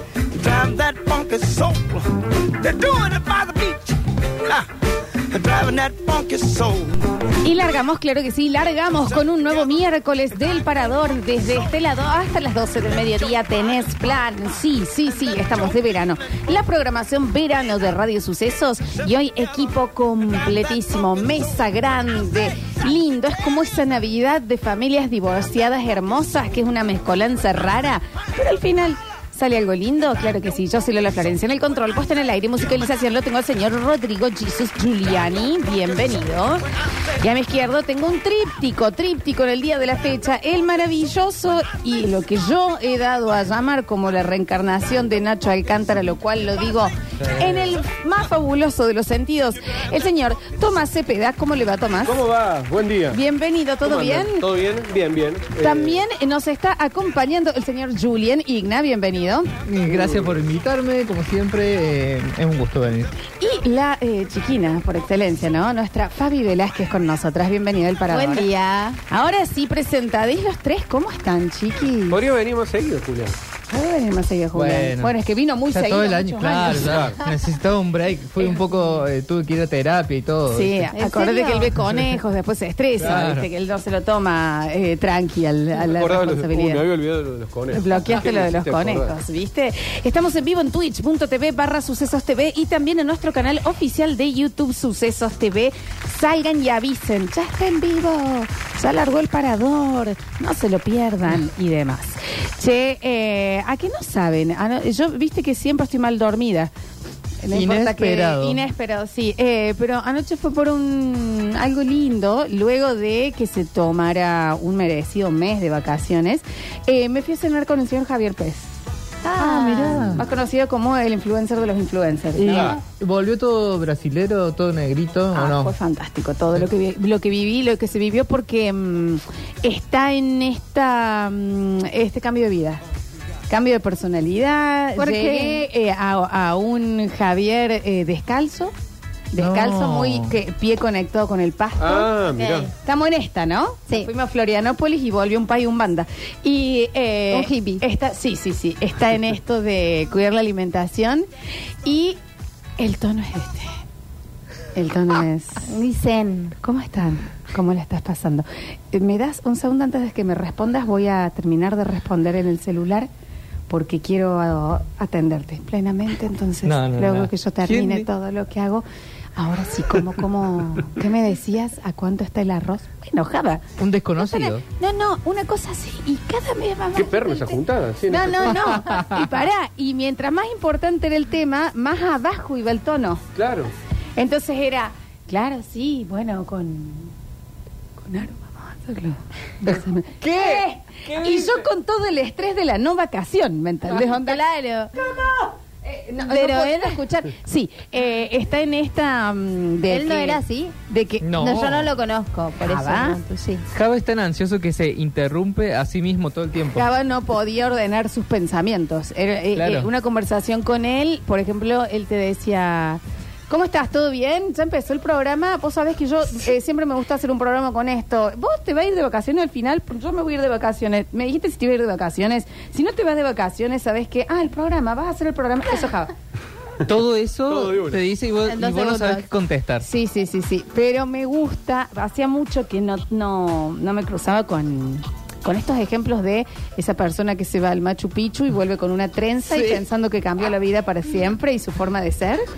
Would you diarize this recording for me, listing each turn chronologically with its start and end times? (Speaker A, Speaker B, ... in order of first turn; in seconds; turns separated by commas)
Speaker A: 0.3-4.7, Speaker A: 5.3-7.1, Speaker B: 7.4-52.2, Speaker C: 52.0-53.2, Speaker B: 53.1-54.5, Speaker C: 53.8-56.0, Speaker B: 55.6-59.5, Speaker D: 59.6-63.1, Speaker C: 60.0-60.2, Speaker B: 63.4-68.5, Speaker E: 68.1-69.0, Speaker B: 69.1-72.2, Speaker C: 72.1-73.3, Speaker B: 73.7-77.0, Speaker D: 74.5-75.2, Speaker D: 75.7-80.9, Speaker C: 76.7-77.2, Speaker B: 80.5-86.8, Speaker E: 80.9-81.8, Speaker D: 83.0-83.5, Speaker C: 85.9-89.1, Speaker B: 87.7-106.7, Speaker B: 107.4-118.8, Speaker D: 107.5-108.7, Speaker D: 119.3-120.2, Speaker B: 119.3-122.8, Speaker D: 122.3-125.7, Speaker C: 122.5-122.8, Speaker B: 125.3-132.8, Speaker B: 133.5-138.7, Speaker E: 135.0-135.6, Speaker B: 139.3-142.1, Speaker D: 139.3-140.3, Speaker C: 141.8-142.7, Speaker E: 142.3-142.7, Speaker B: 142.7-151.2, Speaker E: 147.3-147.8, Speaker B: 151.8-152.2, Speaker B: 152.8-153.7, Speaker B: 154.7-155.7, Speaker E: 155.6-156.6, Speaker B: 156.6-163.1, Speaker B: 163.7-168.8, Speaker D: 166.6-168.1, Speaker B: 169.3-173.6, Speaker D: 173.8-174.6, Speaker B: 174.2-183.2, Speaker C: 176.9-178.7, Speaker C: 183.3-183.7, Speaker B: 184.2-187.1, Speaker B: 188.0-194.4, Speaker D: 189.6-191.6, Speaker E: 194.0-195.0, Speaker B: 195.0-201.3, Speaker E: 196.2-197.0, Speaker E: 199.9-200.7, Speaker D: 201.2-201.9, Speaker E: 201.3-203.7, Speaker B: 202.6-203.2, Speaker D: 203.7-206.9, Speaker B: 206.7-226.1, Speaker D: 209.5-209.9, Speaker D: 226.8-229.8, Speaker C: 227.5-228.0, Speaker E: 228.4-229.2, Speaker B: 229.8-242.4, Speaker D: 239.5-239.8